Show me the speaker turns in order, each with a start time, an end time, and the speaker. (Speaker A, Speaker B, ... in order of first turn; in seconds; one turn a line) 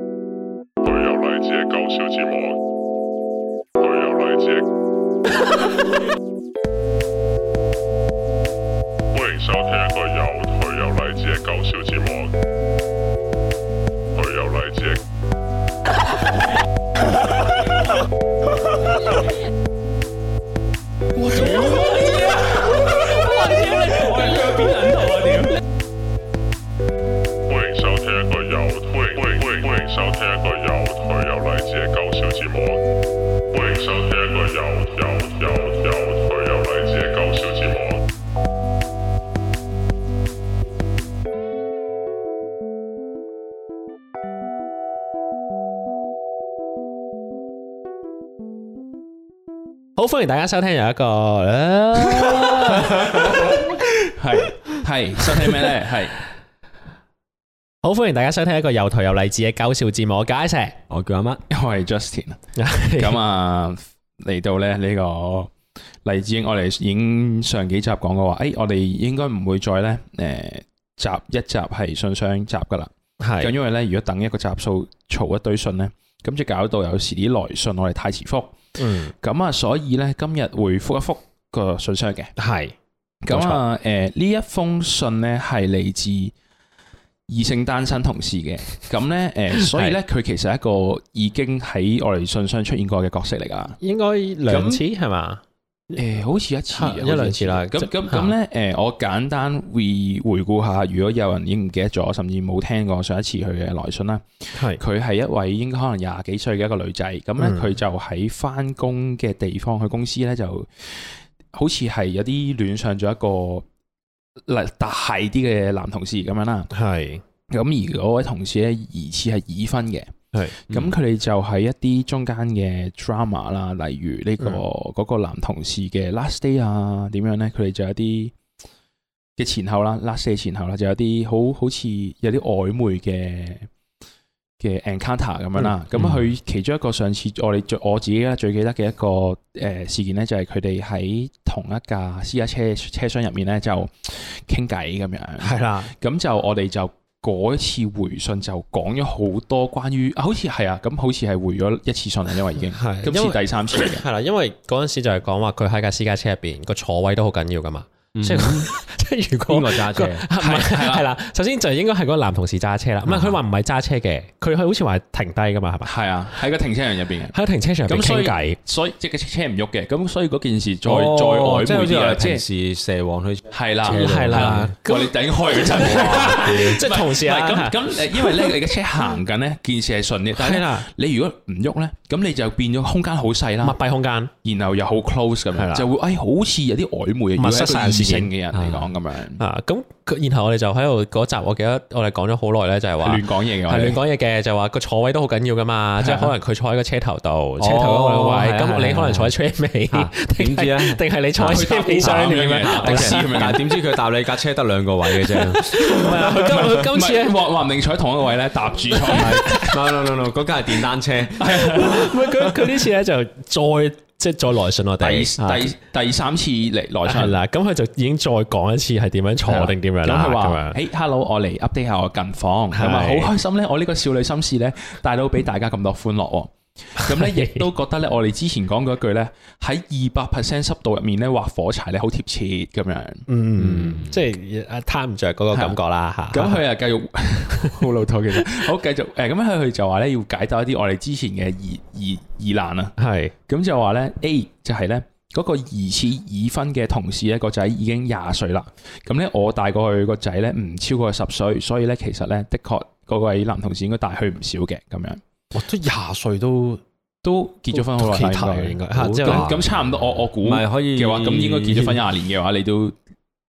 Speaker A: 0.8-2.6
Speaker A: 3.8-4.7
Speaker A: 9.1-12.3
Speaker A: 14.1-15.0
Speaker B: 21.1-25.5
Speaker C: 21.3-21.8
Speaker C: 23.4-24.3
Speaker A: 27.5-32.8
Speaker A: 33.5-38.0
Speaker C: 50.0-53.5
Speaker B: 52.0-56.1
Speaker C: 57.8-60.8
Speaker D: 60.9-61.4
Speaker B: 61.5-62.4
Speaker C: 62.6-63.2
Speaker B: 63.0-65.5
Speaker B: 66.0-78.6
Speaker C: 73.2-73.5
Speaker C: 78.8-79.1
Speaker B: 79.1-82.3
Speaker C: 82.4-82.7
Speaker B: 83.2-86.3
Speaker C: 83.3-83.6
Speaker B: 87.3-93.8
Speaker C: 89.6-90.0
Speaker C: 93.8-95.4
Speaker B: 94.5-94.8
Speaker B: 95.9-113.6
Speaker C: 96.7-98.3
Speaker C: 104.5-104.8
Speaker C: 107.4-107.6
Speaker B: 114.5-116.7
Speaker C: 116.7-117.2
Speaker B: 117.5-128.3
Speaker B: 129.4-133.7
Speaker B: 134.6-154.0
Speaker C: 145.4-145.9
Speaker C: 152.7-165.9
Speaker D: 158.1-158.7
Speaker D: 159.5-160.2
Speaker B: 160.3-161.0
Speaker D: 163.1-163.3
Speaker B: 165.8-167.3
Speaker C: 167.3-168.6
Speaker B: 167.9-172.4
Speaker D: 170.8-174.7
Speaker B: 173.5-183.8
Speaker C: 173.9-178.6
Speaker C: 180.3-180.9
Speaker C: 183.6-184.3
Speaker B: 184.4-189.4
Speaker C: 185.6-185.8
Speaker C: 187.4-188.3
Speaker D: 188.5-188.9
Speaker C: 189.4-203.5
Speaker B: 193.0-194.0
Speaker B: 196.0-196.3
Speaker D: 197.6-199.3
Speaker D: 199.9-206.8
Speaker B: 201.4-203.6
Speaker C: 205.1-207.4
Speaker B: 206.5-209.7
Speaker C: 208.9-209.8
Speaker D: 209.1-212.1
Speaker B: 211.4-212.7
Speaker C: 211.7-215.3
Speaker B: 215.0-217.4
Speaker D: 215.4-215.6
Speaker C: 217.0-220.8
Speaker B: 219.5-233.2
Speaker C: 222.7-223.3
Speaker C: 227.0-227.7
Speaker C: 233.3-236.6
Speaker D: 233.6-234.2
Speaker B: 235.5-235.8
Speaker B: 236.3-242.9
Speaker C: 243.0-243.3
Speaker B: 243.5-255.2
Speaker C: 255.5-256.8
Speaker B: 257.2-263.0
Speaker C: 257.7-259.5
Speaker D: 259.1-259.8
Speaker D: 260.4-262.0